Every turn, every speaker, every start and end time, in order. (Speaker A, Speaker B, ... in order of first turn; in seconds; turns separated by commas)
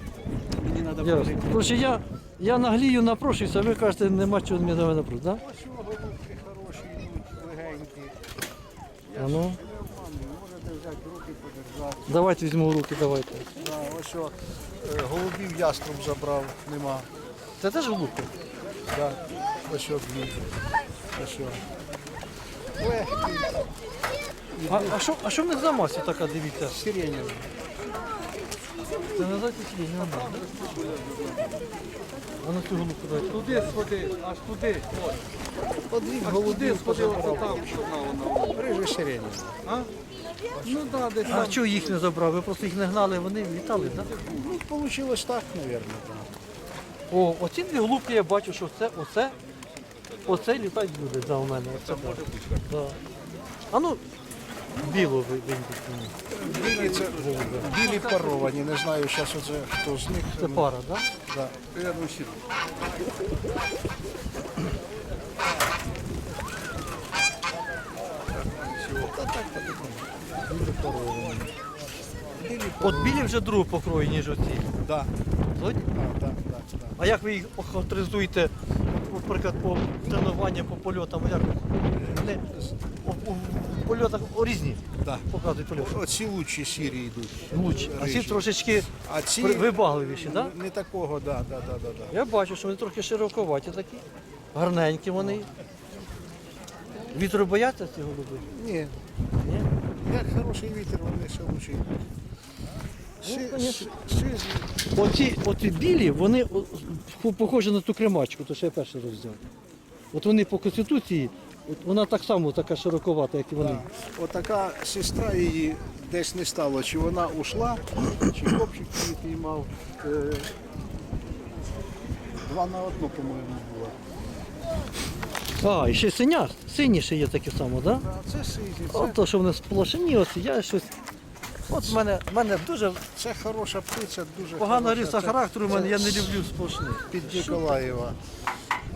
Speaker A: 0.5-1.7, Speaker B: 0.9-1.6, Speaker C: 1.0-5.4, Speaker A: 5.3-8.2, Speaker A: 9.0-12.0, Speaker C: 9.2-9.6, Speaker C: 12.1-13.5, Speaker A: 13.6-17.1, Speaker C: 17.6-18.3, Speaker A: 18.9-20.5, Speaker A: 21.1-21.6, Speaker A: 22.8-23.6, Speaker A: 24.5-25.0, Speaker C: 24.7-26.8, Speaker A: 26.7-27.5, Speaker C: 29.1-30.4, Speaker B: 30.0-31.6, Speaker C: 32.4-33.9, Speaker B: 33.3-35.1, Speaker A: 35.9-38.0, Speaker B: 36.2-38.6, Speaker C: 36.2-37.6, Speaker A: 38.5-39.6, Speaker A: 40.5-41.6, Speaker B: 40.6-41.9, Speaker C: 41.3-44.1, Speaker A: 44.1-46.3, Speaker C: 47.1-49.4, Speaker B: 50.1-50.5, Speaker C: 50.3-53.0, Speaker B: 51.7-52.6, Speaker C: 53.7-54.0, Speaker C: 54.8-56.1, Speaker A: 56.4-60.7, Speaker C: 56.6-57.8, Speaker C: 60.4-61.0, Speaker A: 61.2-62.4, Speaker A: 68.3-70.1, Speaker C: 70.5-71.5, Speaker A: 72.3-73.2, Speaker C: 72.8-74.7, Speaker A: 74.8-75.1, Speaker C: 75.5-75.9, Speaker A: 75.9-77.0, Speaker C: 77.0-82.4, Speaker A: 81.9-82.9, Speaker C: 83.0-86.0, Speaker A: 85.0-92.2, Speaker C: 87.5-90.5, Speaker C: 92.1-95.5, Speaker C: 97.1-98.5, Speaker A: 98.5-98.9, Speaker C: 99.4-99.7, Speaker A: 100.0-101.9, Speaker C: 103.2-103.9, Speaker A: 103.2-104.8, Speaker C: 104.9-109.4, Speaker C: 110.1-113.8, Speaker A: 113.6-120.5, Speaker A: 122.5-124.0, Speaker C: 125.6-128.0, Speaker A: 128.0-129.2, Speaker C: 128.9-130.9, Speaker C: 131.7-133.0, Speaker A: 133.1-136.3, Speaker C: 134.6-137.8, Speaker A: 137.1-138.2